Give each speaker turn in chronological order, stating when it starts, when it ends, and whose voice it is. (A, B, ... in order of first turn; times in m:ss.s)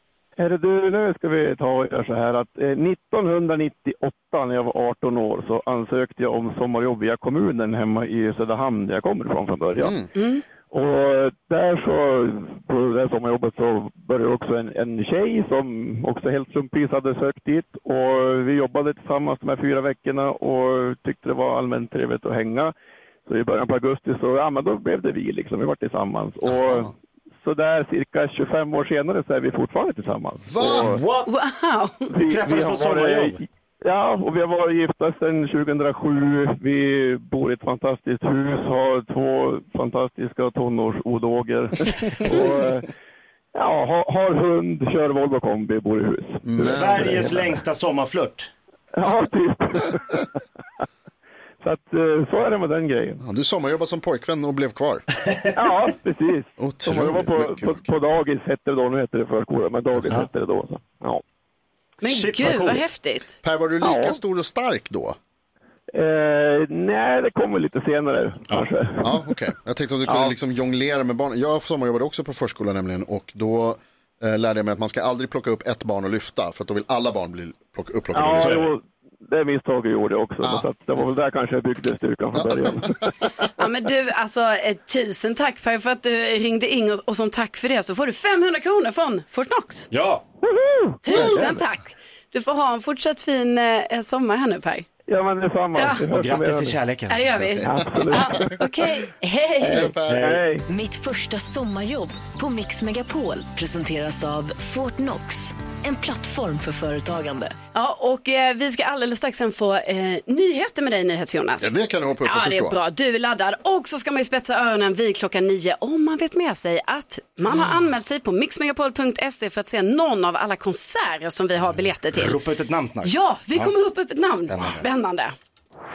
0:00.4-0:09.9 A
0:09.7-0:10.1 B
0:10.1-0:10.4 C
0:10.7-0:22.7 A
0:23.2-0:31.0 A
0:26.4-0:26.9 B
0:30.5-0:31.0 B
0:30.6-0:31.3 D
0:31.3-0:32.1 C
0:32.1-0:42.8 A
0:32.2-0:33.4 D
0:42.2-0:42.5 B
0:43.5-0:47.4 A
0:46.4-0:47.3 B
0:46.6-0:48.5 D
0:48.9-0:50.3 A
0:51.6-0:53.2 A
0:53.2-0:55.0 B
0:55.6-1:01.2 A
0:56.6-0:58.0 B
1:02.0-1:03.3 C
1:02.0-1:02.9 D
1:03.4-1:05.2 B
1:03.8-1:04.2 A
1:05.9-1:09.2 A
1:09.0-1:18.7 B
1:10.1-1:10.3 A
1:18.1-1:23.0 A
1:18.4-1:18.7 D
1:20.4-1:20.7 B
1:22.3-1:22.9 B
1:23.6-1:29.9 C
1:29.9-1:30.2 D
1:30.4-1:31.6 A
1:31.0-1:34.8 C
1:31.1-1:31.4 B
1:35.1-1:36.8 A
1:35.7-1:36.1 C
1:36.0-1:37.3 D
1:37.1-1:39.9 C
1:37.4-1:38.4 B
1:37.6-1:38.5 A
1:39.6-1:40.7 A
1:39.7-1:40.4 B
1:40.0-1:40.4 D
1:40.7-1:47.5 E
1:47.7-1:51.7 C
1:51.6-1:52.8 B
1:52.2-2:02.4 C
2:02.1-2:04.8 D
2:03.0-2:05.3 C